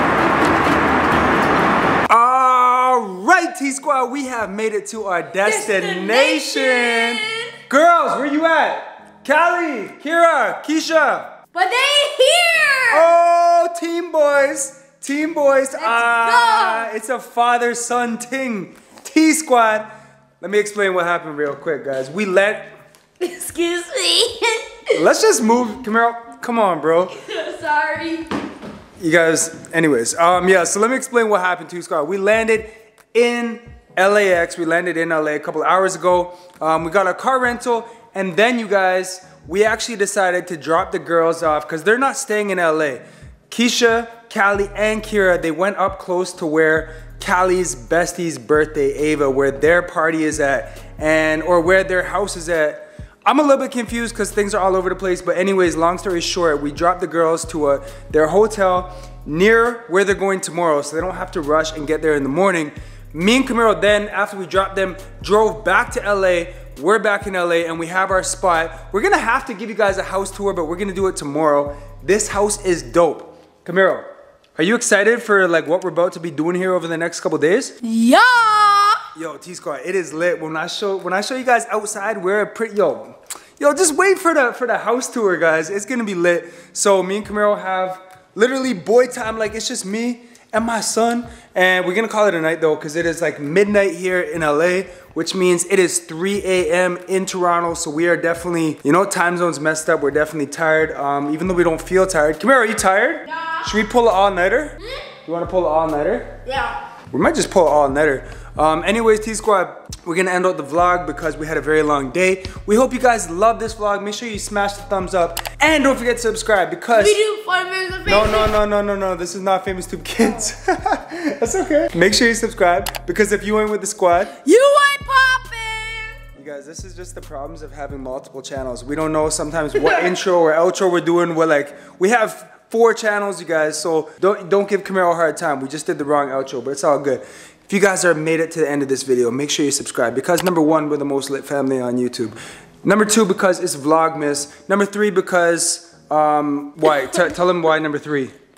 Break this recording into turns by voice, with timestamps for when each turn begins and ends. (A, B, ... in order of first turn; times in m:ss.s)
0:02.1-0:11.4 A
0:05.4-0:07.5 B
0:11.5-0:13.1 B
0:12.9-0:22.7 A
0:15.7-0:16.9 B
0:23.2-0:24.6 B
0:24.9-0:27.1 A
0:27.2-0:28.3 B
0:29.0-1:17.8 A
1:17.8-1:19.0 B
1:19.1-1:46.4 A
1:46.4-1:46.8 B
1:47.1-1:57.2 A
1:56.9-1:58.5 B
1:58.0-2:04.4 A
2:04.4-2:06.2 B
2:06.4-2:28.3 A